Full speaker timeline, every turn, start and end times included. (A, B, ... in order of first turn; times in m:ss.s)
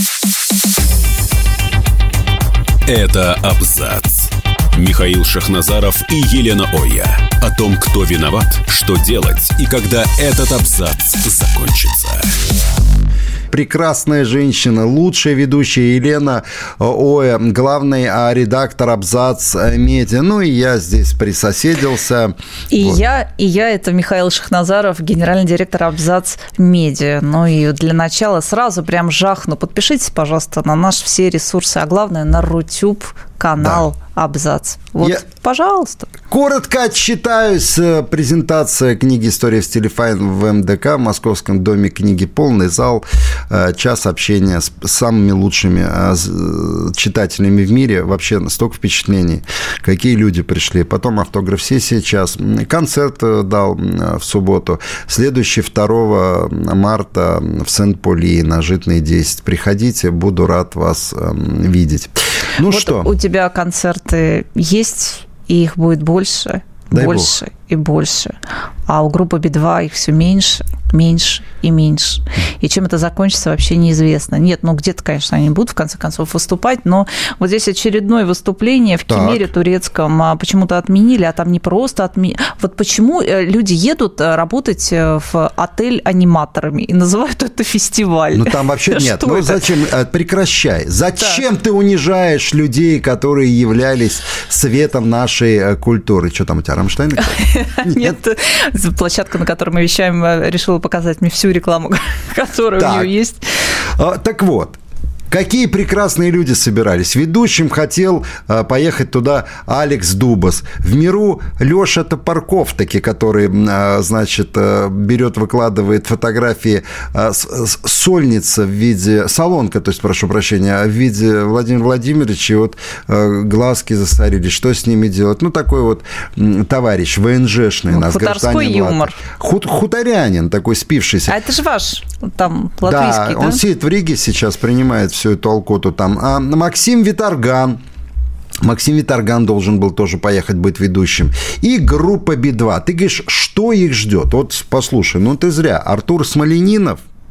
0:02.8-0:12.3 A
0:13.5-0:23.0 B
0:22.7-0:36.1 C
0:33.6-0:33.8 B
0:36.3-1:03.1 B
1:02.6-1:08.4 C
1:06.9-1:07.3 B
1:08.9-1:29.7 C
1:19.1-1:19.5 B
1:28.3-1:38.1 B
1:37.2-1:43.5 C
1:42.8-1:43.1 B
1:43.9-1:44.8 B
1:45.3-2:11.4 B
2:07.9-2:09.2 C
2:11.3-2:13.6 C
2:12.8-2:17.8 B
2:18.6-2:27.0 B